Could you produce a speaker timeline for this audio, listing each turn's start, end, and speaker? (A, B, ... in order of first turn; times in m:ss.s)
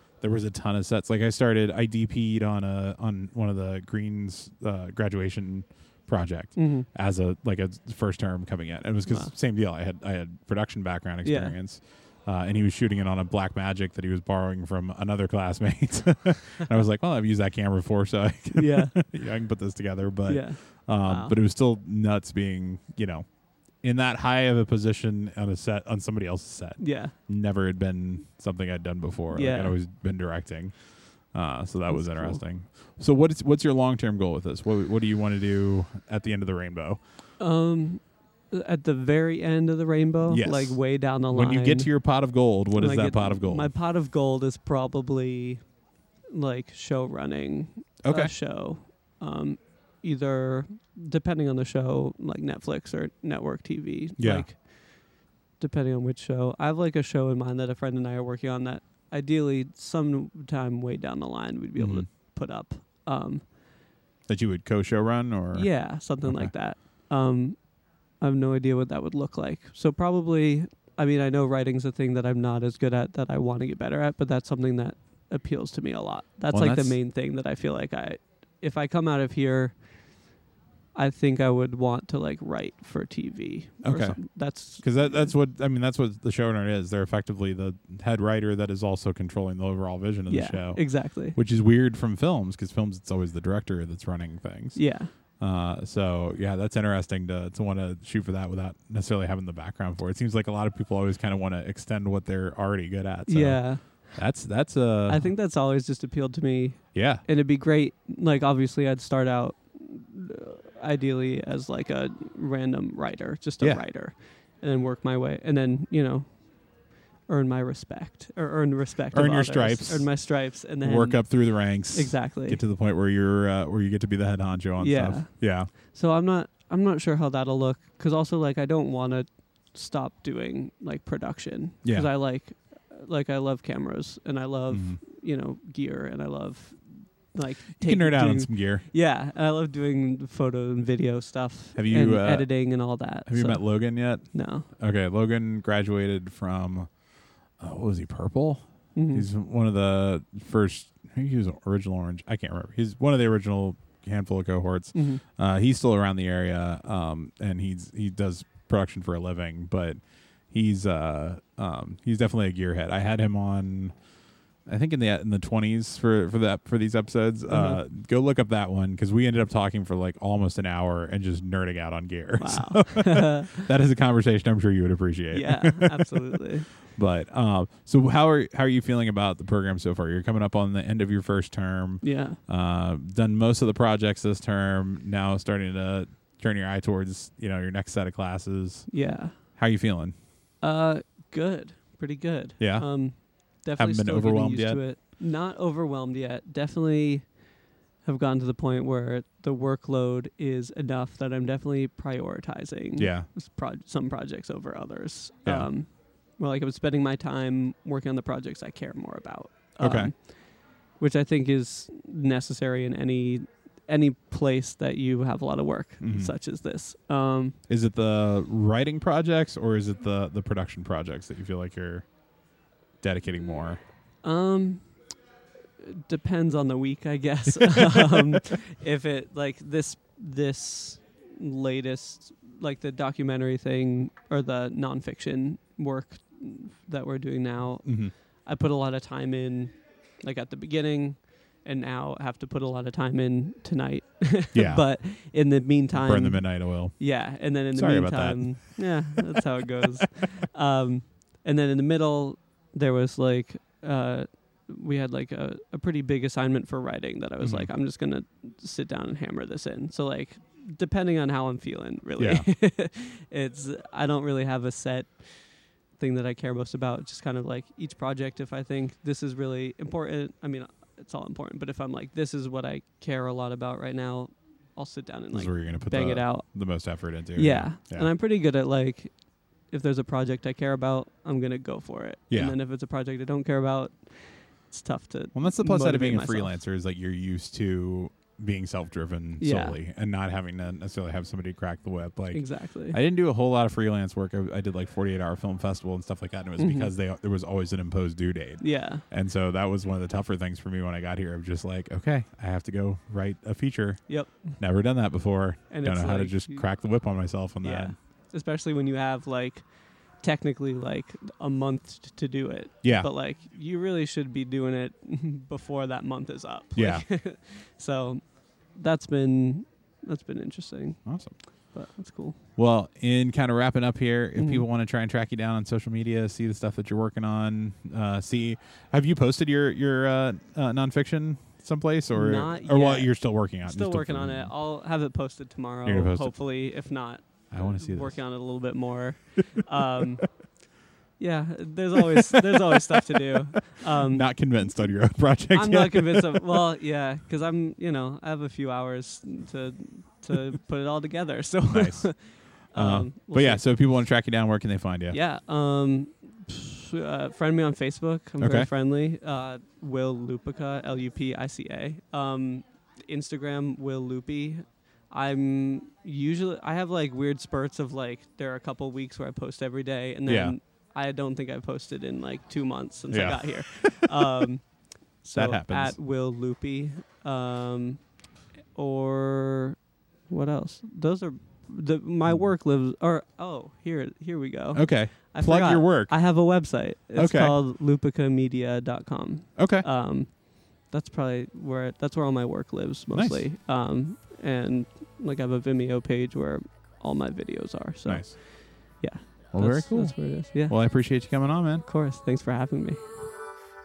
0:00.2-0:23.3 A
0:06.6-0:06.9 B
0:11.2-0:11.6 B
0:18.5-0:19.0 B
0:20.3-0:21.4 B
0:23.8-0:37.0 A
0:26.8-0:27.1 B
0:29.3-0:29.8 B
0:31.9-0:32.4 B
0:37.4-0:41.9 B
0:40.3-0:43.7 A
0:42.8-0:45.6 B
0:46.3-0:54.7 B
0:48.0-0:48.3 A
0:54.2-0:54.5 A
0:55.6-1:03.4 B
1:01.8-1:02.1 A
1:04.3-1:05.7 A
1:05.5-1:07.6 B
1:06.2-1:06.5 A
1:08.2-1:19.8 B
1:16.5-1:17.0 A
1:21.0-1:25.3 B
1:23.8-1:34.9 A
1:30.3-1:31.4 B
1:34.8-1:35.1 B
1:35.4-1:45.3 A
1:43.3-1:43.8 B
1:45.1-1:56.5 B
1:46.9-1:47.2 A
1:57.3-2:02.6 B
1:59.1-2:00.2 A
2:00.8-2:05.7 A
2:04.8-2:24.7 B
2:11.8-2:12.1 A
2:14.7-2:15.0 A
2:17.8-2:18.8 A
2:21.8-2:22.5 A
2:23.3-2:26.9 A
2:27.6-2:40.0 A
2:29.0-2:29.3 B
2:35.0-2:35.2 B
2:40.5-2:44.0 A
2:44.7-3:08.9 A
2:47.5-2:47.8 B
2:52.4-2:53.7 B
2:55.3-2:56.7 B
3:02.0-3:02.4 B
3:08.9-3:09.4 B
3:09.5-3:10.2 A
3:10.6-3:17.3 B
3:12.6-3:12.9 A
3:13.8-3:14.8 A
3:18.0-3:30.2 B
3:23.0-3:23.3 A
3:29.8-3:30.1 A
3:31.0-3:37.6 B
3:36.0-3:36.3 A
3:37.7-3:42.1 A
3:43.0-3:43.8 A
3:44.2-3:44.9 B
3:45.8-4:25.2 B
3:57.8-3:58.1 A
4:04.5-4:04.9 A
4:05.9-4:07.0 A
4:07.7-4:09.8 A
4:17.4-4:17.7 A
4:22.2-4:22.5 A
4:26.0-4:36.5 B
4:35.3-4:38.1 A
4:37.4-4:39.1 B
4:39.7-4:46.5 B
4:42.3-4:42.6 A
4:45.4-5:08.0 A
4:49.4-4:49.8 B
4:52.3-4:53.0 B
4:56.6-4:56.9 B
4:58.6-4:59.0 B
5:04.1-5:04.6 B
5:05.7-5:06.6 B
5:07.6-5:09.7 B
5:10.2-5:18.2 B
5:12.8-5:13.1 A
5:16.8-5:17.0 A
5:18.8-5:21.0 B
5:21.0-5:21.4 A
5:21.7-5:22.4 B
5:22.6-5:34.5 A
5:24.4-5:24.6 B
5:32.1-5:33.1 B
5:33.6-5:40.3 B
5:35.9-5:36.4 A
5:37.5-5:38.2 A
5:41.2-5:44.3 B
5:42.0-5:46.6 A
5:45.5-5:53.6 B
5:51.7-5:52.2 A
5:52.7-5:55.2 A
5:55.1-6:14.6 B
5:58.4-5:58.7 A
6:10.3-6:10.6 A
6:13.1-6:14.5 A
6:15.2-6:18.0 B
6:15.4-6:16.0 A
6:18.8-6:19.8 B
6:20.3-6:40.8 B
6:24.7-6:26.2 A
6:27.2-6:27.6 A
6:29.6-6:29.9 A
6:33.1-6:33.4 A
6:38.1-6:38.4 A
6:39.5-6:41.8 A
6:41.8-6:43.0 B